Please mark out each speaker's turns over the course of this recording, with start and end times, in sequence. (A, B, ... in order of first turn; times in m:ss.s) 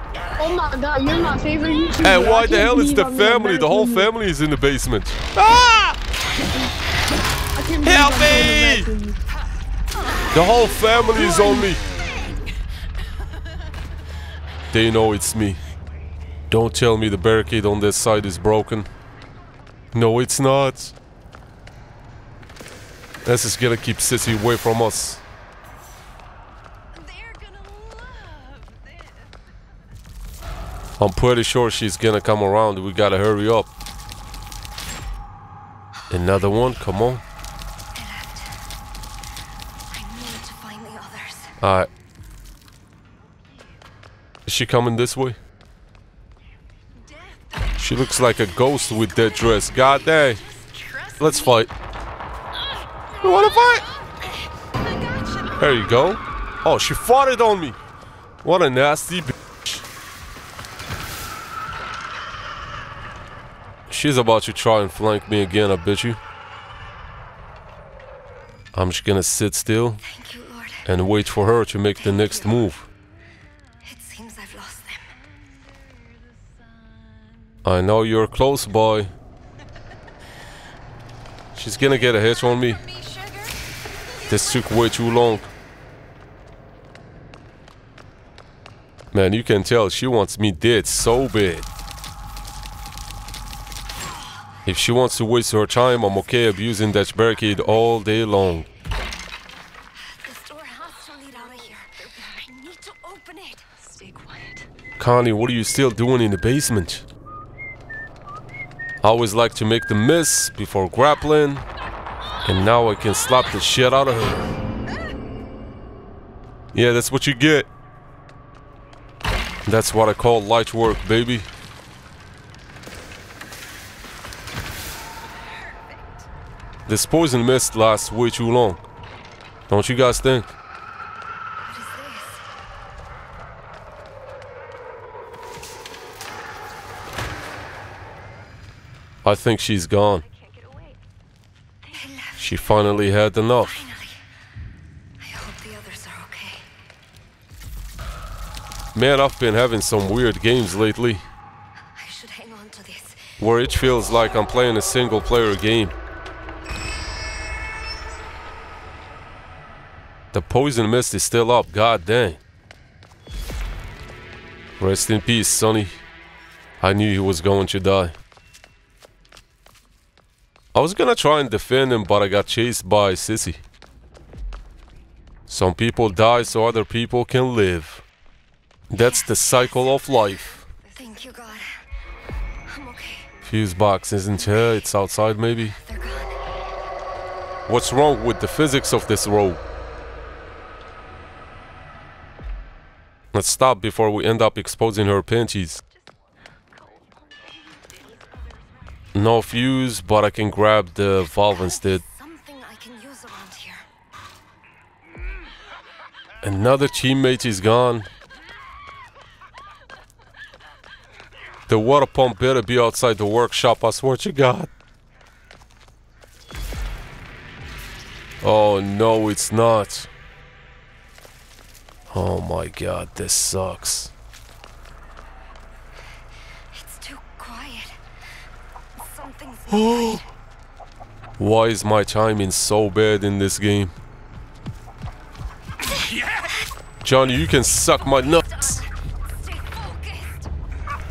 0:00.4-0:04.1 A
0:02.0-0:06.0 B
0:07.6-0:09.2 A
0:07.8-0:08.9 B
0:10.3-0:11.8 B
0:14.7-0:15.6 B
0:16.5-0:18.9 B
0:19.9-0:20.9 B
0:23.2-0:25.2 B
0:26.9-0:29.3 C
0:31.0-0:33.7 B
0:36.1-0:37.2 B
0:37.9-0:38.6 C
0:39.9-0:41.5 C
0:41.6-0:41.9 B
0:44.4-0:45.4 B
0:47.0-0:47.8 C
0:47.8-0:50.4 B
0:48.7-0:51.5 C
0:51.2-0:51.7 B
0:53.2-0:53.8 B
0:53.2-0:55.6 C
0:55.6-0:57.8 B
0:58.4-0:59.8 B
1:03.9-1:06.2 B
1:08.7-1:10.0 B
1:10.0-1:10.8 C
1:10.8-1:12.9 B
1:13.8-1:15.2 C
1:17.6-1:19.1 B
1:21.5-1:22.8 B
1:22.6-1:24.9 C
1:24.2-1:25.5 B
1:29.1-1:31.7 B
1:34.6-1:38.7 B
1:40.1-1:44.6 C
1:45.0-1:47.0 B
1:49.0-1:51.6 B
1:52.4-1:54.5 B
1:56.7-1:57.7 B
1:59.6-2:01.5 B
2:06.9-2:08.8 B
2:09.7-2:10.6 B
2:11.6-2:12.4 C
2:19.2-2:20.2 B
2:20.3-2:21.0 C
2:21.8-2:22.6 C
2:22.4-2:23.8 B
2:23.6-2:24.2 C
2:25.2-2:26.7 C
2:28.9-2:31.2 B
2:32.0-2:33.4 C
2:33.4-2:36.0 B
2:40.3-2:42.4 B
2:44.8-2:46.0 B
2:46.8-2:48.1 B
2:50.7-2:53.6 B
2:55.5-2:58.0 B
2:58.9-3:00.6 B
2:59.0-2:59.7 C
3:00.8-3:01.7 C
3:02.7-3:03.3 C
3:03.4-3:05.8 B
3:05.8-3:06.4 C
3:07.7-3:09.6 B
3:13.3-3:15.8 B
3:16.8-3:18.3 C
3:19.1-3:22.0 B
3:21.4-3:23.9 C
3:26.4-3:28.1 B
3:31.7-3:34.7 B
3:38.4-3:40.1 B
3:42.1-3:44.1 B
3:46.7-3:48.0 C
3:49.0-3:50.2 C
3:49.7-3:50.2 B
3:51.4-3:53.9 B
3:56.2-3:56.5 C
3:57.0-3:58.8 B
3:58.2-4:00.5 C